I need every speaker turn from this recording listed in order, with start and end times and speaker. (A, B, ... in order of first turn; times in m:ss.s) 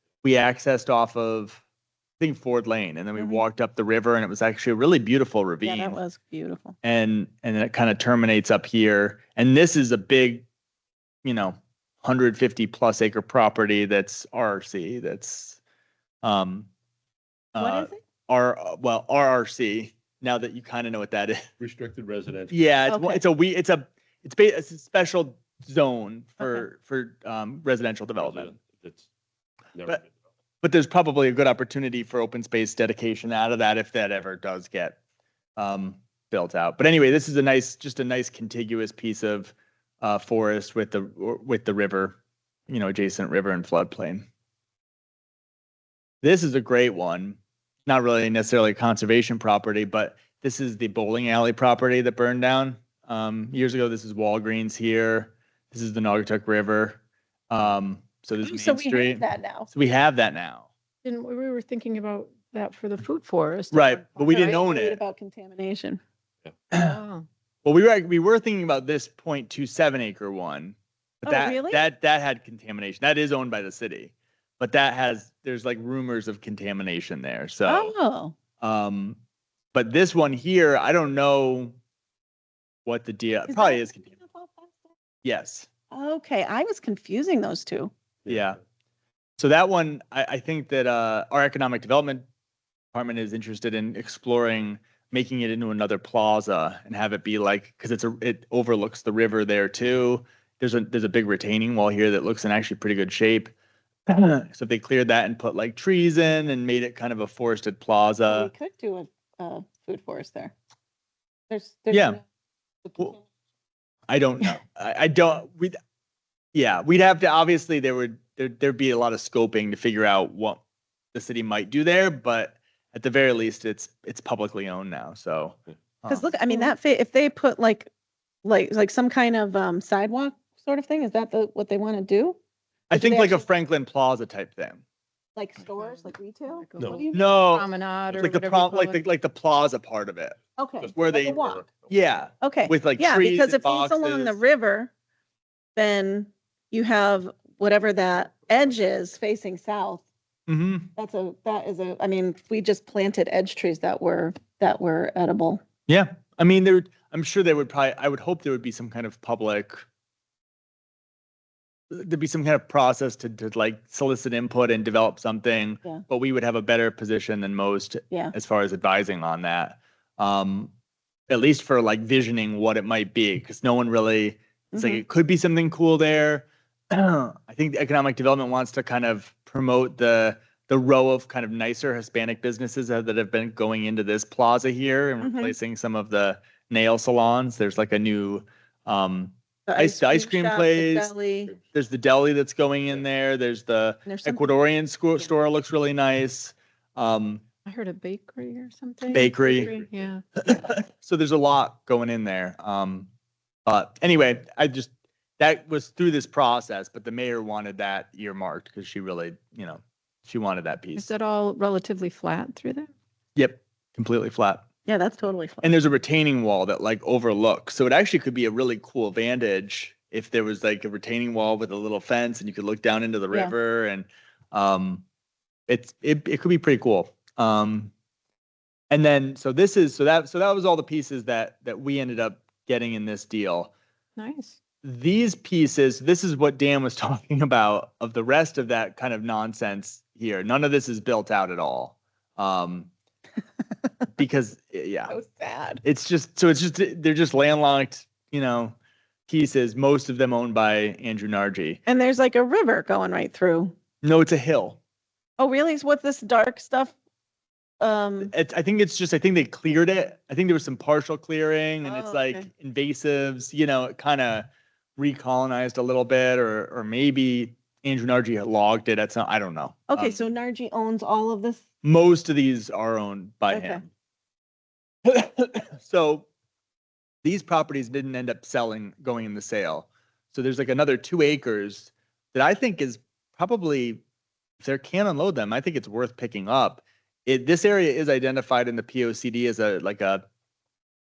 0:00.2-0:01.6 A
0:02.2-0:06.0 A
0:03.2-0:03.4 B
0:05.6-0:06.7 B
0:06.8-0:10.4 A
0:11.2-0:15.6 A
0:16.2-0:16.7 A
0:17.5-0:21.5 A
0:17.6-0:18.0 B
0:21.6-0:22.5 C
0:22.5-0:28.5 A
0:22.9-0:23.2 B
0:28.2-0:29.0 C
0:29.7-0:30.1 C
0:30.6-0:35.0 A
0:35.6-0:42.2 A
0:42.7-0:44.2 A
0:46.2-1:00.7 A
0:58.4-0:59.7 B
1:01.0-1:04.6 D
1:03.7-1:05.0 A
1:04.3-1:06.0 B
1:06.7-1:07.2 D
1:07.6-1:17.9 A
1:11.2-1:11.8 B
1:17.6-1:18.4 B
1:18.6-1:19.2 A
1:19.7-1:21.8 A
1:22.8-1:24.1 A
1:23.5-1:24.9 B
1:25.2-1:25.7 A
1:25.9-1:27.9 B
1:28.3-1:28.6 A
1:29.4-1:32.2 A
1:32.9-1:43.5 A
1:44.1-1:48.5 A
1:48.3-1:50.5 B
1:51.5-1:52.2 B
1:51.9-1:52.2 A
1:52.8-1:53.2 B
1:54.1-1:55.8 A
1:56.5-2:00.6 A
2:01.1-2:06.4 A
2:06.1-2:07.9 B
2:08.4-2:12.4 B
2:12.9-2:14.8 A
2:12.9-2:13.4 B
2:15.4-2:17.4 B
2:15.8-2:19.0 D
2:17.1-2:20.4 A
2:20.6-2:21.7 B
2:20.8-2:21.9 C
2:20.9-2:24.4 A
2:22.4-2:24.9 B
2:25.8-2:30.0 B
2:30.5-2:30.9 A
2:31.0-2:35.6 B
2:35.9-2:39.8 A
2:41.9-2:50.7 A
2:51.3-3:11.1 A
2:54.7-2:55.0 B
3:05.2-3:05.5 B
3:09.7-3:11.6 B
3:11.6-3:17.4 A
3:14.0-3:14.4 B
3:17.6-3:20.2 D
3:19.1-3:19.7 A
3:20.4-3:23.1 A
3:23.6-3:31.1 A
3:31.0-3:32.9 D
3:33.4-3:34.6 A
3:34.8-3:35.8 B
3:35.6-3:45.0 A
3:45.7-3:47.9 A
3:48.9-3:53.7 A
3:54.2-3:54.6 D
3:54.8-4:02.9 A
4:04.2-4:05.1 A
4:05.1-4:05.8 B
4:05.8-4:08.7 A
4:09.3-4:11.8 A
4:11.8-4:13.7 B
4:14.0-4:14.8 A
4:15.4-4:16.9 B
4:17.8-4:18.3 B
4:18.2-4:30.2 A
4:21.8-4:22.5 B
4:29.9-4:31.6 B
4:31.8-4:33.8 A
4:33.5-4:33.8 B
4:35.0-4:36.3 A
4:37.2-4:44.0 A
4:44.6-4:50.2 A